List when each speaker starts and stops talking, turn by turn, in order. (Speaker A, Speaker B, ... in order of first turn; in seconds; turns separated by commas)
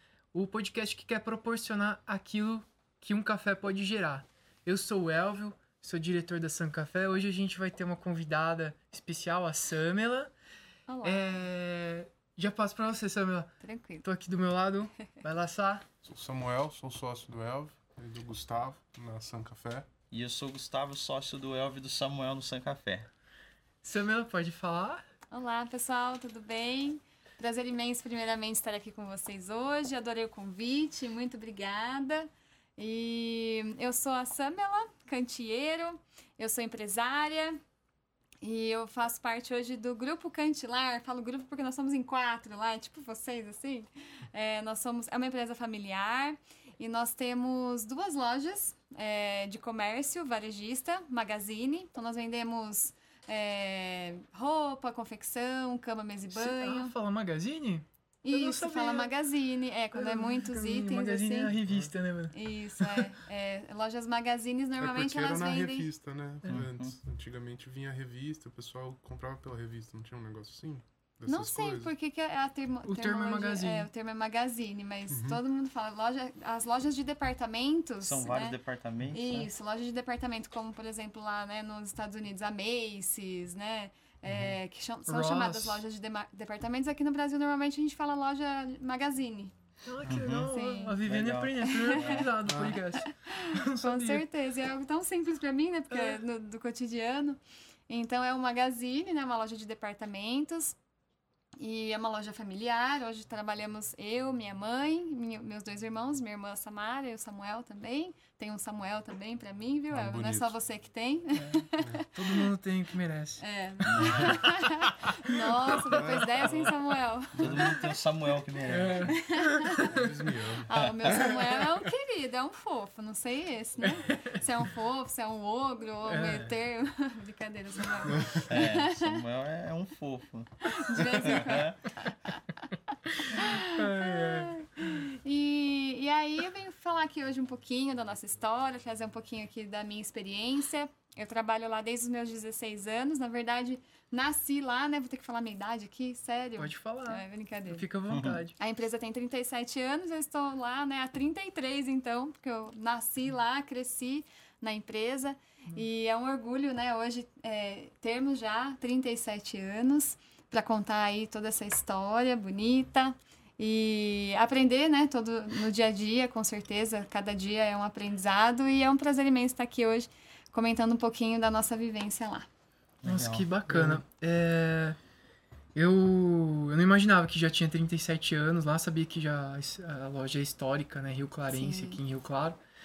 Speaker A: 0.3-10.3, Speaker B: 10.9-11.4, Speaker A: 11.0-15.8, Speaker B: 13.6-14.0, Speaker C: 16.0-19.9, Speaker D: 20.1-23.1, Speaker A: 23.8-25.0, Speaker B: 25.3-37.6, Speaker B: 38.4-56.9, Speaker A: 56.3-59.1, Speaker B: 58.2-61.5, Speaker A: 59.9-63.1, Speaker B: 62.3-65.9, Speaker C: 64.8-71.9, Speaker D: 66.5-66.9, Speaker B: 71.2-78.6, Speaker A: 72.8-73.9, Speaker C: 75.1-75.4, Speaker D: 78.0-79.5, Speaker B: 79.1-89.5, Speaker D: 84.3-84.5, Speaker A: 85.1-85.8, Speaker A: 89.8-94.2, Speaker D: 90.0-90.5, Speaker B: 90.4-91.0, Speaker D: 91.0-92.2, Speaker B: 91.7-91.9, Speaker C: 92.4-92.8, Speaker B: 93.0-100.8, Speaker A: 95.9-96.2, Speaker B: 101.6-112.4, Speaker C: 109.9-110.5, Speaker A: 111.4-113.4, Speaker B: 113.4-117.9, Speaker D: 113.9-114.4, Speaker A: 114.0-114.3, Speaker C: 115.8-116.8, Speaker D: 117.4-119.1, Speaker A: 118.7-119.9, Speaker B: 119.1-119.9, Speaker C: 119.9-120.7, Speaker B: 120.6-129.2, Speaker D: 120.8-121.4, Speaker A: 124.0-124.3, Speaker A: 126.1-126.5, Speaker C: 128.1-128.5, Speaker D: 128.4-131.8, Speaker B: 130.6-132.4, Speaker A: 133.1-134.7, Speaker B: 133.3-147.8, Speaker A: 146.6-148.5, Speaker D: 148.1-148.4, Speaker B: 148.6-172.5, Speaker D: 173.0-174.0, Speaker A: 173.0-175.0, Speaker A: 175.7-182.6, Speaker B: 181.5-182.0